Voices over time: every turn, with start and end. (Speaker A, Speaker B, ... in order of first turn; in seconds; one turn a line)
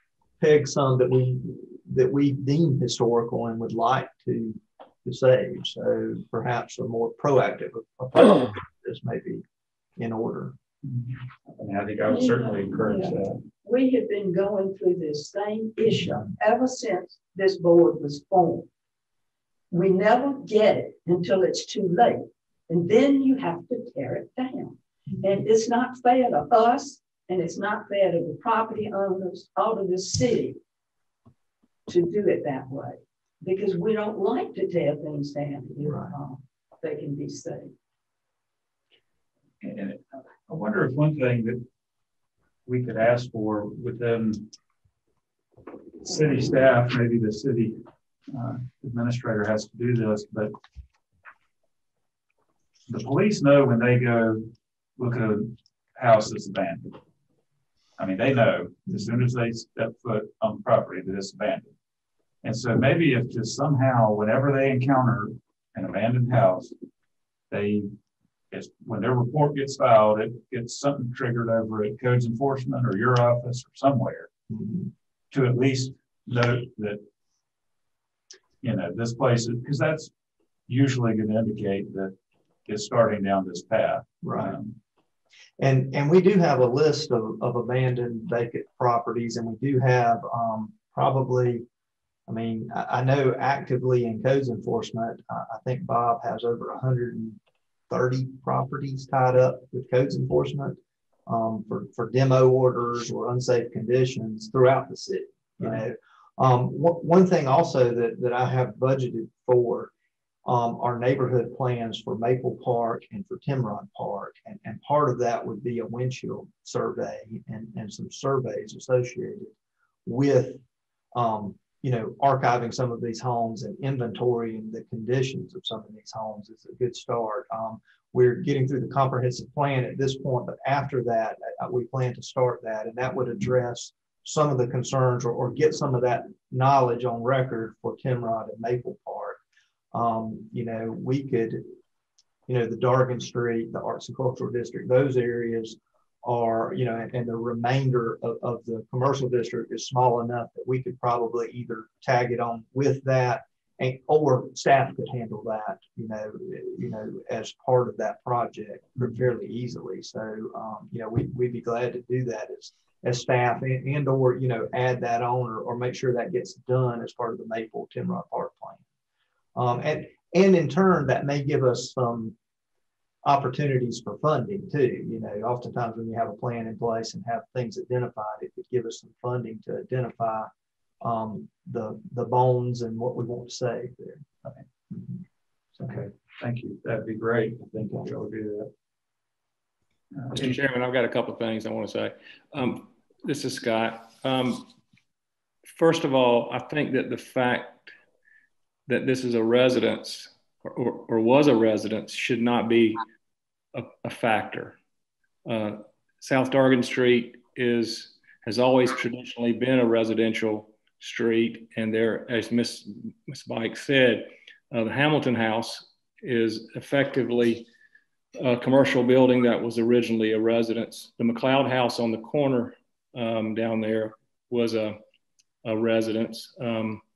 Speaker A: 0.4-9.4
Speaker A: 10.0-10.5
Speaker B: 10.8-13.4
Speaker C: 12.1-18.7
Speaker C: 19.7-30.6
Speaker C: 31.9-37.7
Speaker A: 35.8-36.1
Speaker B: 39.6-41.6
Speaker B: 42.6-44.5
Speaker B: 46.0-50.5
Speaker B: 52.9-56.9
Speaker B: 58.0-61.7
Speaker B: 62.4-66.7
Speaker B: 67.5-67.9
Speaker B: 68.5-74.3
Speaker A: 74.5-74.9
Speaker B: 75.3-77.0
Speaker B: 78.6-80.1
Speaker B: 80.7-82.1
Speaker B: 82.7-84.8
Speaker A: 84.2-84.5
Speaker A: 85.6-91.7
Speaker A: 92.3-109.9
Speaker A: 110.4-119.5
Speaker A: 120.0-120.6
Speaker A: 121.1-139.4
Speaker A: 139.9-141.6
Speaker A: 142.5-168.8
Speaker A: 169.5-172.3
Speaker A: 173.2-180.5
Speaker A: 181.0-184.2
Speaker B: 185.8-188.7
Speaker B: 190.1-190.5
Speaker D: 190.3-194.7
Speaker D: 195.7-197.9
Speaker D: 198.9-203.0
Speaker D: 203.7-204.8
Speaker D: 205.4-217.7
Speaker D: 218.4-225.0
Speaker D: 225.6-227.0